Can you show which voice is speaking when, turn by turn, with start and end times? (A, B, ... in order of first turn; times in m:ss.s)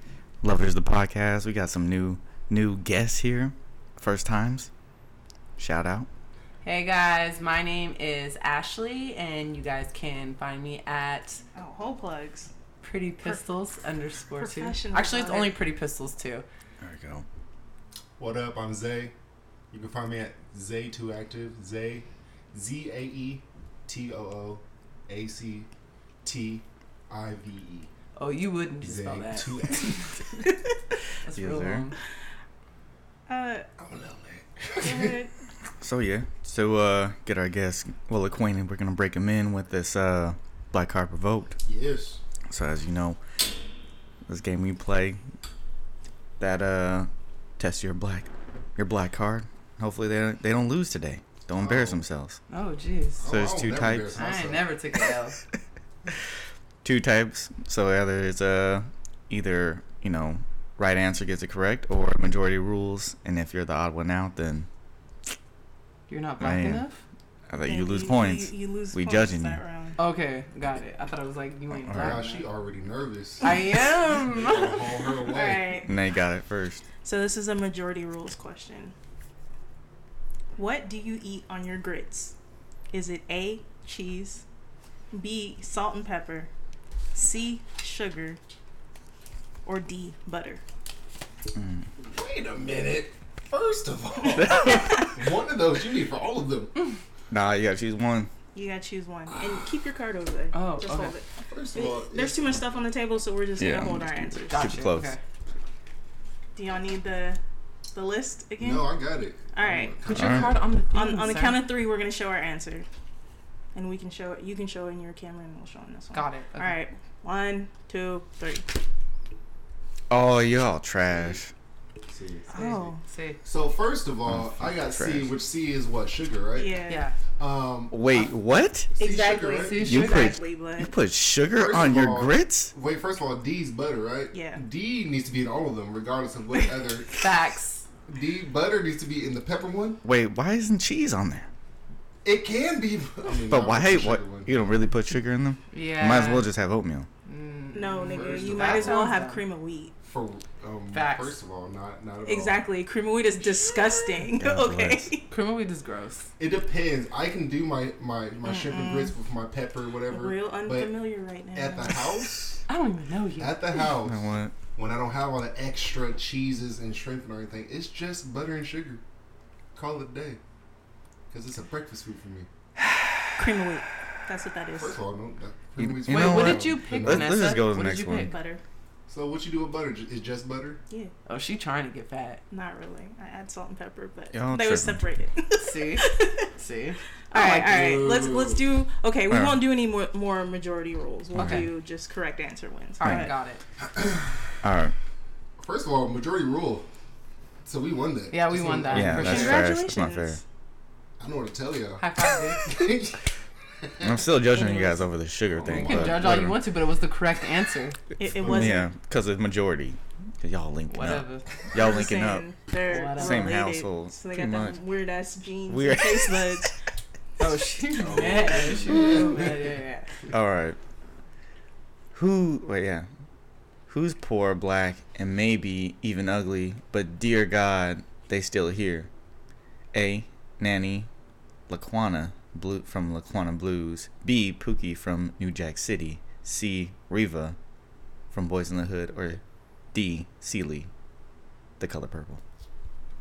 0:00.4-0:04.7 A
0:05.6-0:06.1 A
0:06.6-0:11.4 B
0:11.6-0:12.5 C
0:12.8-0:16.4 B
0:14.4-0:15.5 C
0:16.8-0:17.2 A
0:18.2-0:19.1 D
0:19.7-0:25.7 D
0:26.2-0:27.9 D
0:28.2-0:30.2 B
0:28.8-0:30.4 D
0:31.2-0:32.0 B
0:31.3-0:31.9 A
0:33.3-0:33.7 C
0:33.8-0:35.2 D
0:34.8-0:35.3 C
0:35.8-0:41.6 A
0:41.6-0:42.2 D
0:42.5-0:43.2 A
0:44.2-0:45.2 A
0:46.4-0:52.4 A
0:51.6-0:52.0 D
0:52.5-0:53.2 B
0:53.2-0:54.7 D
0:53.3-0:54.2 A
0:54.2-0:55.4 B
0:56.8-1:04.7 A
1:06.1-1:07.0 B
1:06.4-1:06.8 A
1:07.5-1:09.6 A
1:07.6-1:10.0 C
1:10.0-1:12.4 B
1:11.7-1:12.2 A
1:11.9-1:15.8 D
1:13.4-1:15.0 B
1:15.2-1:15.9 C
1:15.8-1:16.8 A
1:17.0-1:18.9 C
1:20.6-1:22.3 C
1:22.9-1:24.4 C
1:25.1-1:26.5 C
1:27.1-1:28.4 C
1:29.6-1:30.6 C
1:31.5-1:31.9 A
1:32.0-1:36.7 D
1:34.2-1:35.1 C
1:34.3-1:35.1 A
1:37.3-1:38.3 A
1:38.5-1:44.7 C
1:39.3-1:39.7 D
1:40.5-1:41.1 B
1:41.5-1:42.6 D
1:43.6-1:45.2 A
1:44.5-1:45.2 B
1:46.5-1:47.4 C
1:47.9-1:48.9 C
1:48.6-1:50.6 D
1:49.5-1:50.0 C
1:50.0-1:51.6 B
1:50.1-1:50.6 A
1:50.9-1:52.8 C
1:53.7-1:58.8 C
1:56.1-1:56.8 B
2:00.1-2:01.5 A
2:01.1-2:01.4 D
2:02.1-2:02.6 D
2:02.5-2:03.0 C
2:02.5-2:03.4 B
2:03.4-2:06.8 D
2:04.3-2:05.3 A
2:06.5-2:07.0 C
2:06.9-2:07.2 B
2:07.4-2:08.3 D
2:07.9-2:08.9 A
2:08.9-2:09.9 D
2:09.0-2:10.4 B
2:09.8-2:10.9 C
2:09.8-2:12.7 A
2:11.5-2:17.4 D
2:14.3-2:14.6 C
2:17.1-2:17.8 B
2:18.0-2:20.0 D
2:20.0-2:21.5 A
2:22.2-2:24.7 D
2:23.4-2:27.1 A
2:25.7-2:26.5 B
2:27.2-2:29.4 B
2:27.7-2:29.9 C
2:28.1-2:29.0 D
2:30.0-2:32.6 D
2:30.9-2:31.4 B
2:32.2-2:35.3 C
2:33.3-2:34.3 B
2:34.4-2:35.1 A
2:35.3-2:36.3 B
2:36.4-2:41.0 D
2:38.4-2:39.1 C
2:40.1-2:42.4 C
2:41.5-2:42.6 D
2:42.7-2:43.9 B
2:43.4-2:49.0 D
2:44.0-2:44.5 A
2:49.7-2:50.4 D
2:51.3-2:52.5 D
2:53.4-2:55.0 C
2:54.7-2:57.4 D
2:55.8-2:58.3 A
2:56.1-2:58.3 B
2:58.1-2:58.6 C
2:59.1-3:00.8 D
3:01.3-3:02.4 B
3:02.5-3:06.5 C
3:04.3-3:05.0 A
3:05.6-3:07.7 B
3:07.3-3:13.3 C
3:07.4-3:08.6 D
3:09.3-3:09.6 A
3:11.3-3:11.7 A
3:11.3-3:11.7 B
3:13.0-3:13.6 B
3:13.0-3:13.3 A
3:13.8-3:14.6 D
3:14.6-3:14.9 A
3:15.6-3:16.9 D
3:17.6-3:19.6 D
3:18.3-3:19.6 B
3:18.9-3:20.4 A
3:19.2-3:20.4 C
3:21.2-3:23.3 D
3:22.0-3:22.7 B
3:23.8-3:24.2 D
3:24.0-3:26.6 A
3:24.5-3:25.1 C
3:25.5-3:26.4 D
3:25.7-3:28.0 B
3:28.2-3:28.9 C
3:28.3-3:28.8 D
3:28.4-3:32.5 A
3:30.9-3:31.4 B
3:31.7-3:36.8 C
3:32.9-3:33.6 B
3:33.0-3:34.8 A
3:35.7-3:36.7 A
3:37.4-3:40.2 B
3:38.0-3:39.7 D
3:40.3-3:40.8 A
3:42.1-3:43.1 A
3:43.9-3:49.1 A
3:49.9-3:51.1 A
3:51.7-3:57.6 A
3:58.3-3:59.4 A
3:59.9-4:00.9 A
4:01.8-4:02.4 A